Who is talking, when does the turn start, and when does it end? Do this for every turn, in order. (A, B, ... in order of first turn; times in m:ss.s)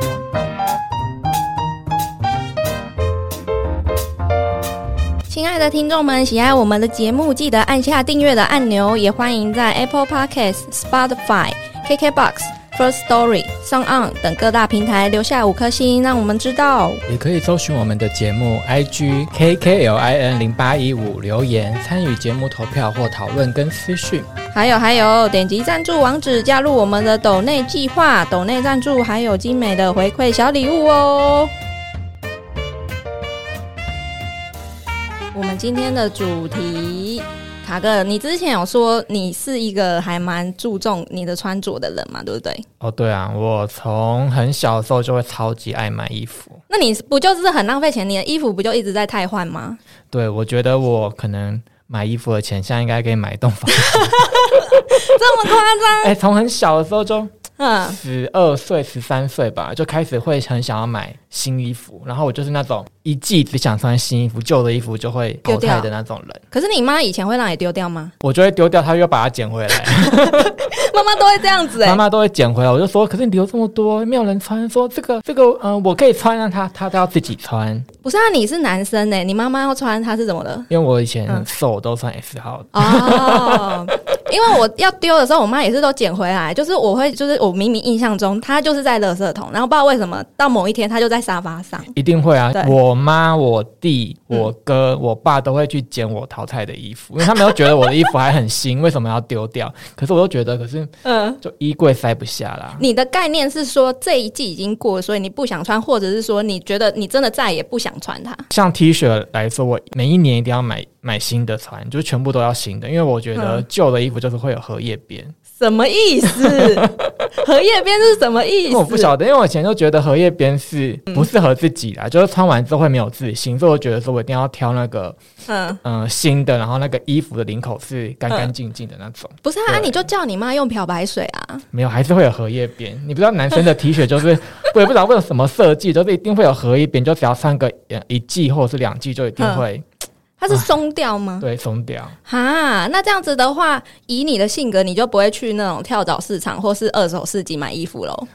0:05.3-0:17.0 A
0:17.0-0:24.3 B
0:24.5-0:31.5 A
0:35.3-0:42.6 A
0:42.8-0:46.6 B
0:46.7-0:49.8 A
0:50.1-0:57.3 B
0:53.7-0:56.1 A
0:57.6-0:58.0 A
0:57.9-1:06.4 B
1:05.4-1:05.9 A
1:06.5-1:08.1 A
1:08.2-1:10.7 B
1:10.2-1:12.0 A
1:11.8-1:17.9 B
1:18.0-1:20.7 A
1:20.7-1:23.9 B
1:22.7-1:31.9 A
1:31.9-1:42.8 B
1:37.4-1:37.9 A
1:41.0-1:41.4 A
1:42.8-1:48.5 A
1:48.5-1:55.3 B
1:53.4-1:53.6 A
1:55.6-1:59.1 A
1:56.3-1:57.1 B
1:58.7-2:05.2 B
2:05.5-2:05.8 A
2:05.8-2:10.1 B
2:09.4-2:11.6 A
2:11.7-2:19.8 B
2:19.4-2:19.6 A
2:20.4-2:21.4 A
2:21.4-2:22.2 B
2:22.2-2:28.3 A